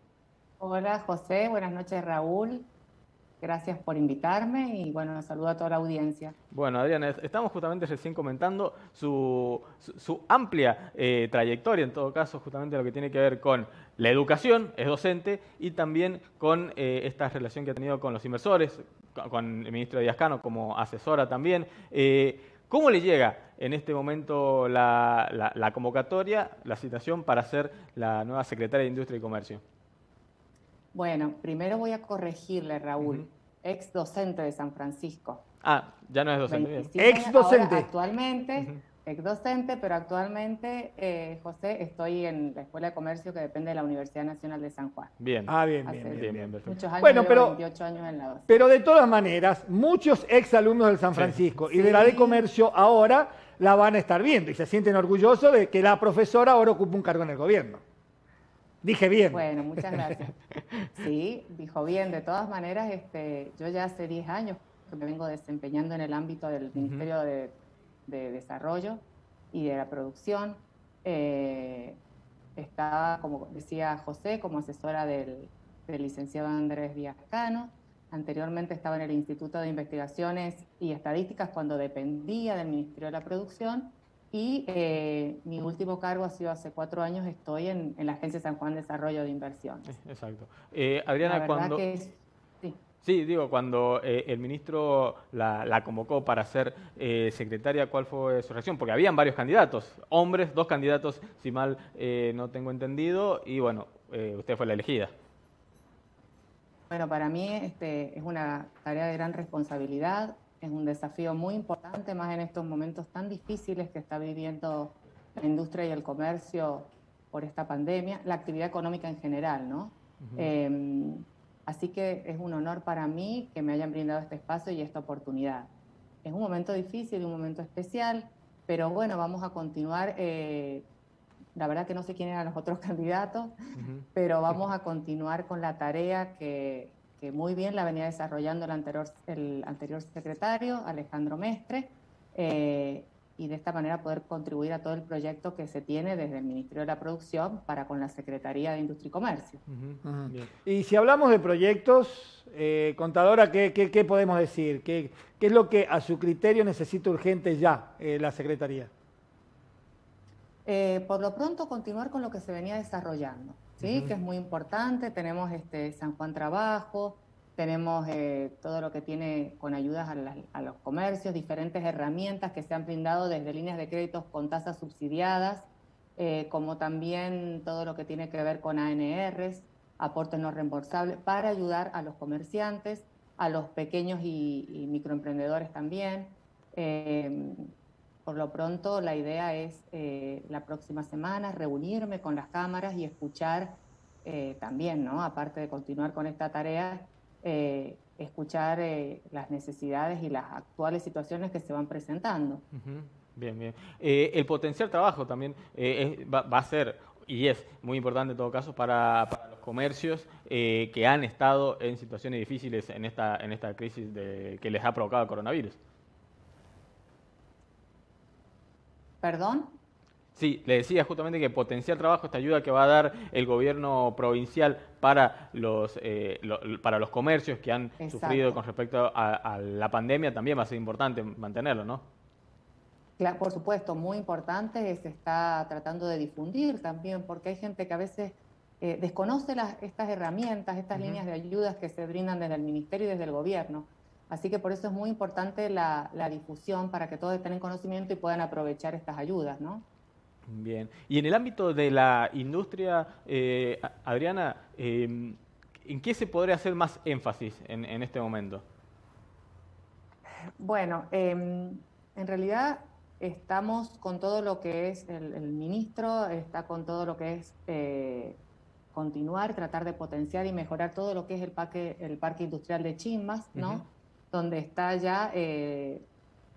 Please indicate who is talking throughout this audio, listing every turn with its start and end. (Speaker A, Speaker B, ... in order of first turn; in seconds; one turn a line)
Speaker A: 0.6-2.7
Speaker A: 3.4-6.3
Speaker B: 6.5-29.6
Speaker A: 30.9-35.4
Speaker B: 33.0-33.3
Speaker B: 35.6-36.9
Speaker A: 36.5-45.1
Speaker C: 37.0-37.9
Speaker B: 45.2-45.5
Speaker C: 45.5-47.6
Speaker A: 45.9-48.6
Speaker B: 46.1-46.8
Speaker C: 48.5-57.8
Speaker B: 51.1-51.4
Speaker A: 51.7-52.5
Speaker C: 58.8-59.4
Speaker A: 59.3-60.4
Speaker A: 60.9-67.6
Speaker B: 66.8-67.1
Speaker A: 68.1-72.0
Speaker A: 72.6-89.9
Speaker B: 89.9-91.8
Speaker A: 91.2-92.8
Speaker B: 93.0-105.1
Speaker A: 106.9-125.7
Speaker B: 120.2-120.5
Speaker A: 126.2-130.9
Speaker A: 131.6-133.6
Speaker B: 133.8-134.6
Speaker A: 134.1-149.6
Speaker B: 149.7-150.5
Speaker C: 150.0-158.9
Speaker A: 160.7-187.7
Speaker B: 163.8-164.1
Speaker A: 188.2-202.6
Speaker B: 202.7-215.8
Speaker A: 219.2-219.8
Speaker B: 220.4-232.1
Speaker A: 228.0-228.6
Speaker A: 233.2-249.8
Speaker B: 240.9-241.2
Speaker B: 250.5-258.6
Speaker A: 260.6-268.4
Speaker A: 268.9-276.0
Speaker B: 273.6-273.9